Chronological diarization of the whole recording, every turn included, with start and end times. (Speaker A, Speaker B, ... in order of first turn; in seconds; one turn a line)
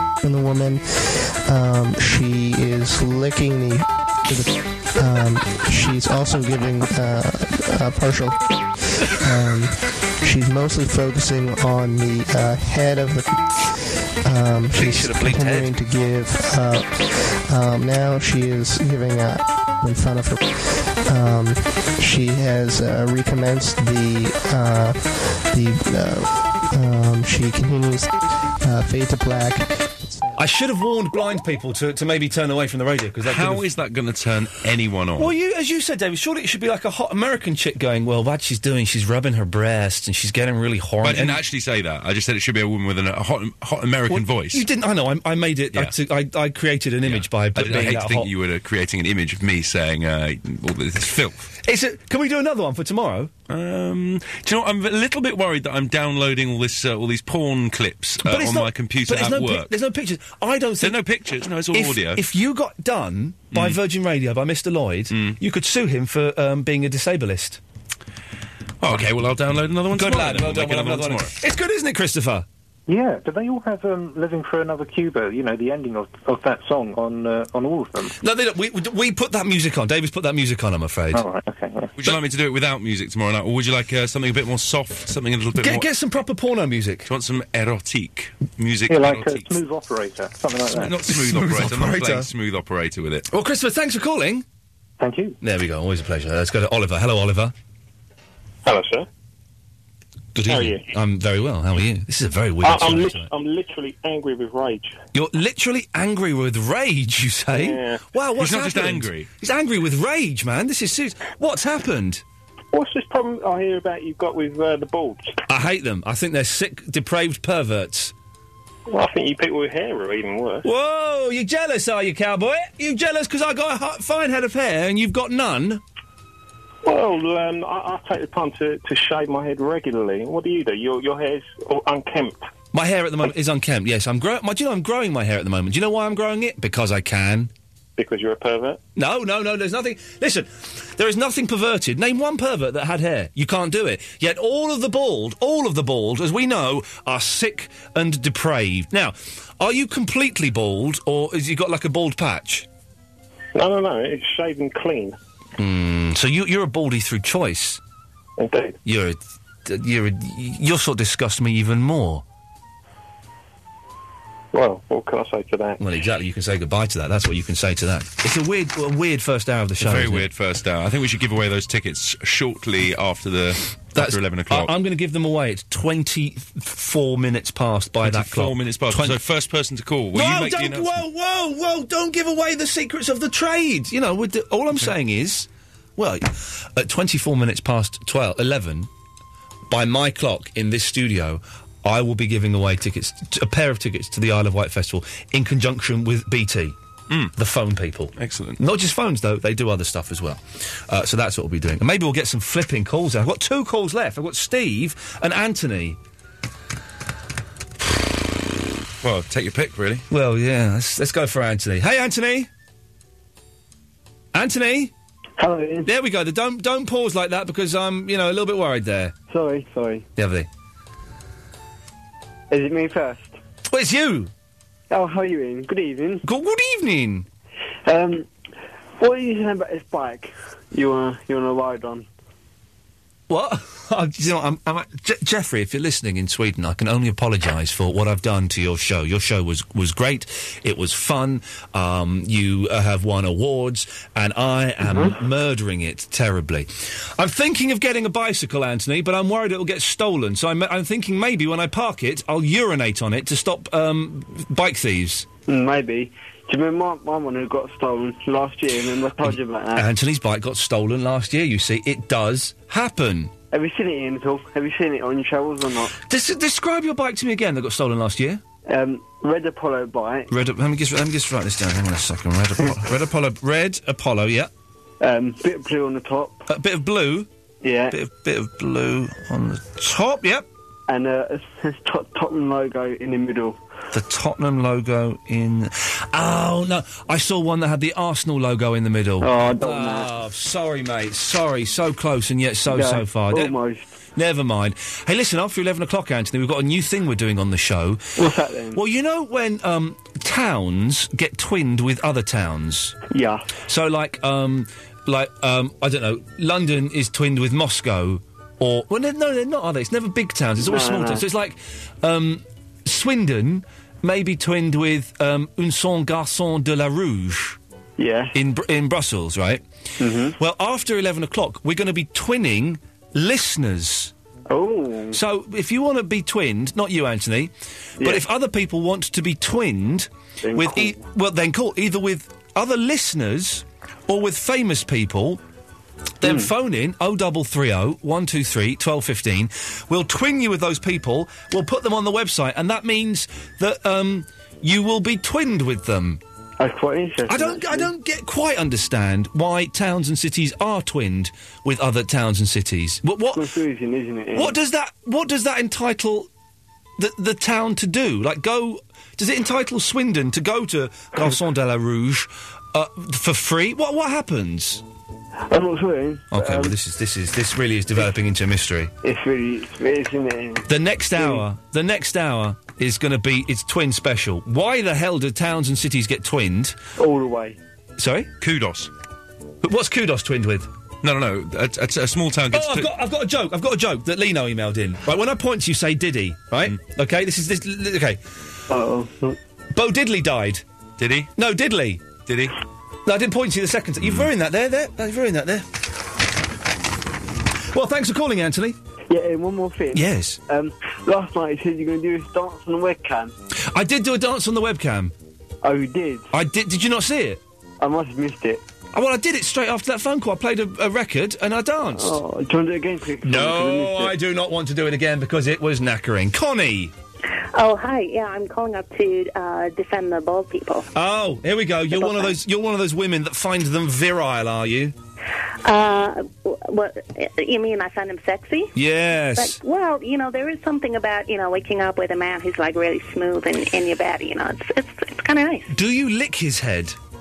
Speaker A: 0.2-30.3
Speaker B: 14.7-15.8
Speaker B: 30.4-33.6
Speaker C: 33.2-35.3
Speaker B: 35.2-41.4
Speaker C: 41.0-44.6
Speaker B: 44.1-48.3
Speaker C: 47.0-51.5
Speaker B: 51.6-53.3
Speaker C: 53.5-59.7
Speaker B: 58.2-61.0
Speaker C: 60.8-62.2
Speaker B: 61.7-67.6
Speaker C: 63.5-63.8
Speaker C: 65.1-65.4
Speaker C: 68.8-71.3
Speaker B: 69.9-72.5
Speaker D: 72.9-78.1
Speaker B: 78.2-81.2
Speaker D: 81.1-81.9
Speaker C: 82.0-85.9
Speaker B: 85.6-87.1
Speaker C: 87.0-89.5
Speaker D: 88.9-90.9
Speaker C: 90.7-93.3
Speaker B: 91.0-92.3
Speaker B: 93.3-94.4
Speaker D: 95.0-95.4
Speaker B: 95.4-97.5
Speaker E: 98.6-99.1
Speaker B: 100.3-103.3
Speaker E: 100.5-100.9
Speaker E: 102.6-105.0
Speaker B: 105.1-112.2
Speaker E: 107.5-108.0
Speaker C: 108.4-109.3
Speaker E: 112.7-115.3
Speaker B: 115.5-118.1
Speaker E: 118.9-120.7
Speaker B: 120.6-125.8
Speaker E: 126.8-132.4
Speaker B: 132.7-137.5
Speaker E: 138.0-138.8
Speaker B: 138.9-152.7
Speaker E: 153.5-155.2
Speaker B: 155.6-157.8
Speaker E: 158.4-158.8
Speaker B: 158.8-162.2
Speaker E: 164.5-165.8
Speaker B: 165.8-170.3
Speaker C: 169.8-174.7
Speaker B: 173.9-179.2
Speaker C: 178.0-181.0
Speaker B: 180.1-188.9
Speaker B: 189.7-196.8
Speaker B: 197.3-206.0
Speaker C: 198.2-198.6
Speaker C: 209.0-210.1
Speaker B: 210.1-212.5
Speaker B: 214.3-214.9
Speaker F: 215.4-215.9
Speaker B: 215.8-219.1
Speaker F: 219.3-220.1
Speaker B: 220.2-220.5
Speaker F: 222.5-223.4
Speaker B: 223.7-224.3
Speaker F: 224.9-226.2
Speaker B: 226.2-227.3
Speaker F: 227.8-228.3
Speaker F: 229.0-232.1
Speaker B: 233.3-255.3
Speaker F: 244.8-245.1
Speaker F: 255.5-259.9
Speaker B: 259.2-263.3
Speaker F: 263.5-265.9
Speaker B: 266.1-268.4
Speaker F: 268.7-270.3
Speaker B: 270.3-274.5
Speaker F: 275.0-276.4
Speaker B: 276.5-277.3
Speaker F: 277.6-277.9
Speaker B: 277.9-280.5
Speaker F: 280.9-283.6
Speaker B: 283.9-293.6
Speaker F: 289.2-290.1
Speaker F: 292.7-293.9
Speaker B: 294.1-298.1
Speaker F: 298.2-298.8
Speaker B: 298.7-303.0
Speaker F: 303.1-303.5
Speaker B: 303.6-317.6
Speaker F: 310.6-311.2
Speaker F: 318.0-318.3
Speaker B: 318.3-319.6
Speaker F: 320.0-320.4
Speaker B: 320.4-324.1
Speaker F: 324.5-325.2
Speaker B: 325.1-335.4
Speaker F: 330.4-330.9
Speaker B: 336.2-346.2
Speaker F: 336.2-336.5
Speaker F: 346.6-347.9
Speaker B: 347.3-353.5
Speaker F: 353.3-354.5
Speaker B: 354.3-356.3
Speaker B: 357.0-364.8
Speaker F: 365.5-366.7
Speaker B: 366.3-368.9
Speaker F: 369.0-371.4
Speaker B: 370.7-376.8
Speaker F: 377.0-377.6
Speaker B: 378.0-378.3
Speaker C: 378.4-378.9
Speaker B: 379.6-380.7
Speaker C: 381.0-382.9
Speaker B: 382.5-388.2
Speaker F: 388.7-389.4
Speaker B: 389.7-390.6
Speaker C: 391.0-391.3
Speaker B: 391.4-392.0
Speaker C: 392.2-392.6
Speaker B: 393.0-395.7
Speaker B: 397.7-398.8
Speaker F: 399.1-403.3
Speaker B: 399.9-400.4
Speaker B: 403.7-405.1
Speaker F: 405.6-406.3
Speaker B: 406.3-407.4
Speaker F: 407.8-408.6
Speaker B: 408.9-412.2
Speaker F: 411.9-414.1
Speaker B: 413.2-416.9
Speaker G: 417.5-420.9
Speaker B: 420.9-424.9
Speaker G: 421.9-422.4
Speaker G: 425.6-428.7
Speaker B: 428.7-429.6
Speaker G: 429.3-435.7
Speaker B: 435.7-436.9